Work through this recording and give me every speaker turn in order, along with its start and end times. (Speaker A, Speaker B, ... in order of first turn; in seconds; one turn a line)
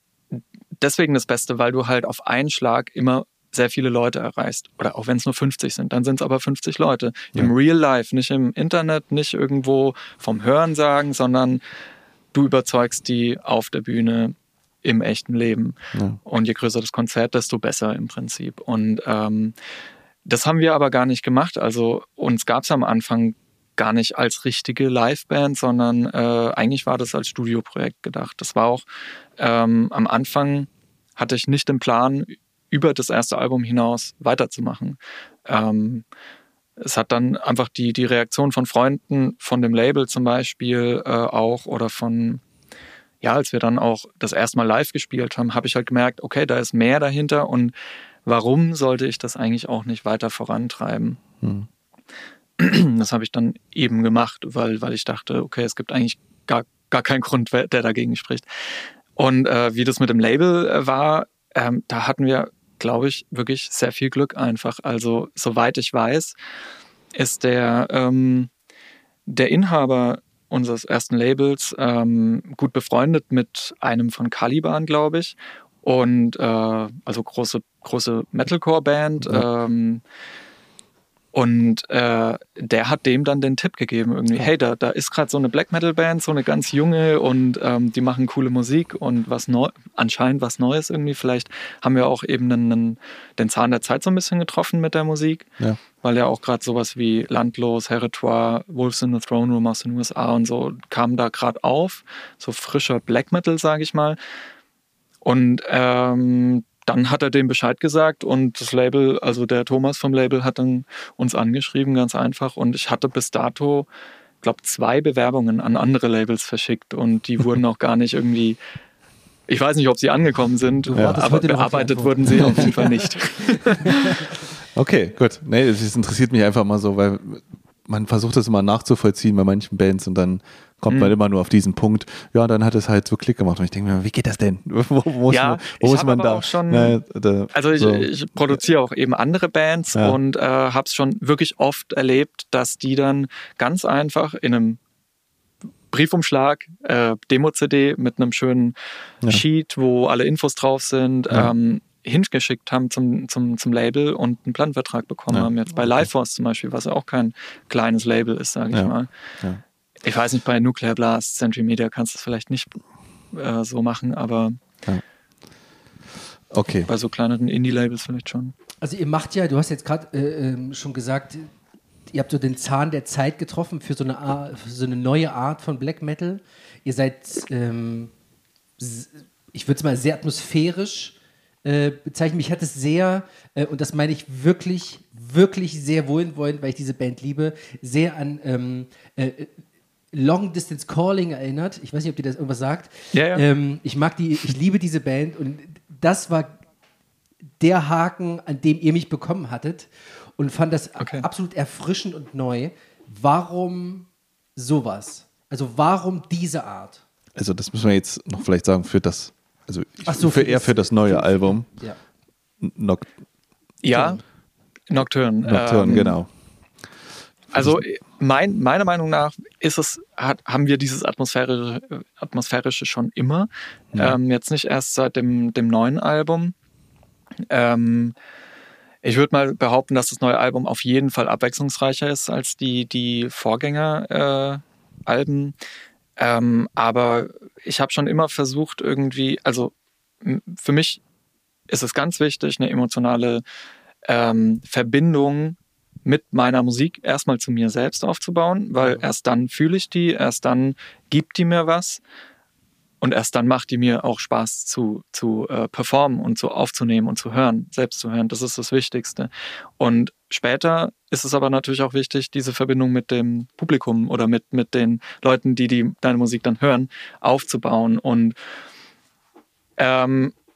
Speaker A: 0.3-11.6
Speaker A: 12.3-19.6
Speaker A: 20.2-28.8
Speaker A: 29.4-36.0
Speaker A: 36.8-42.4
Speaker A: 43.2-47.7
Speaker A: 48.2-51.2
Speaker B: 51.4-51.7
Speaker A: 52.6-66.4
Speaker A: 67.1-68.5
Speaker A: 69.3-80.0
Speaker B: 79.2-79.5
Speaker A: 81.3-95.5
Speaker A: 96.0-104.2
Speaker A: 105.2-113.9
Speaker A: 114.4-118.6
Speaker A: 119.5-124.3
Speaker C: 120.9-123.1
Speaker B: 121.0-121.2
Speaker B: 122.4-122.7
Speaker C: 123.6-124.0
Speaker B: 124.7-138.6
Speaker A: 130.9-131.1
Speaker A: 135.3-137.0
Speaker A: 137.5-144.8
Speaker A: 145.9-159.1
Speaker B: 155.3-156.1
Speaker B: 158.7-159.6
Speaker A: 160.0-162.8
Speaker A: 163.3-164.6
Speaker B: 166.5-166.9
Speaker A: 166.9-168.5
Speaker C: 168.8-171.5
Speaker C: 172.1-178.1
Speaker C: 178.8-189.6
Speaker C: 190.1-196.6
Speaker A: 193.1-193.4
Speaker C: 197.6-207.1
Speaker A: 201.0-201.3
Speaker B: 207.3-211.7
Speaker C: 210.1-212.0
Speaker B: 212.6-213.1
Speaker A: 213.8-214.2
Speaker C: 213.9-214.2
Speaker A: 214.9-216.2
Speaker B: 215.4-216.3
Speaker A: 217.5-226.5
Speaker B: 217.5-217.8
Speaker A: 227.5-228.2
Speaker A: 229.0-235.6
Speaker A: 236.2-241.0
Speaker A: 241.7-243.4
Speaker A: 244.1-252.0
Speaker C: 248.8-249.0
Speaker A: 253.0-268.4
Speaker A: 269.8-270.3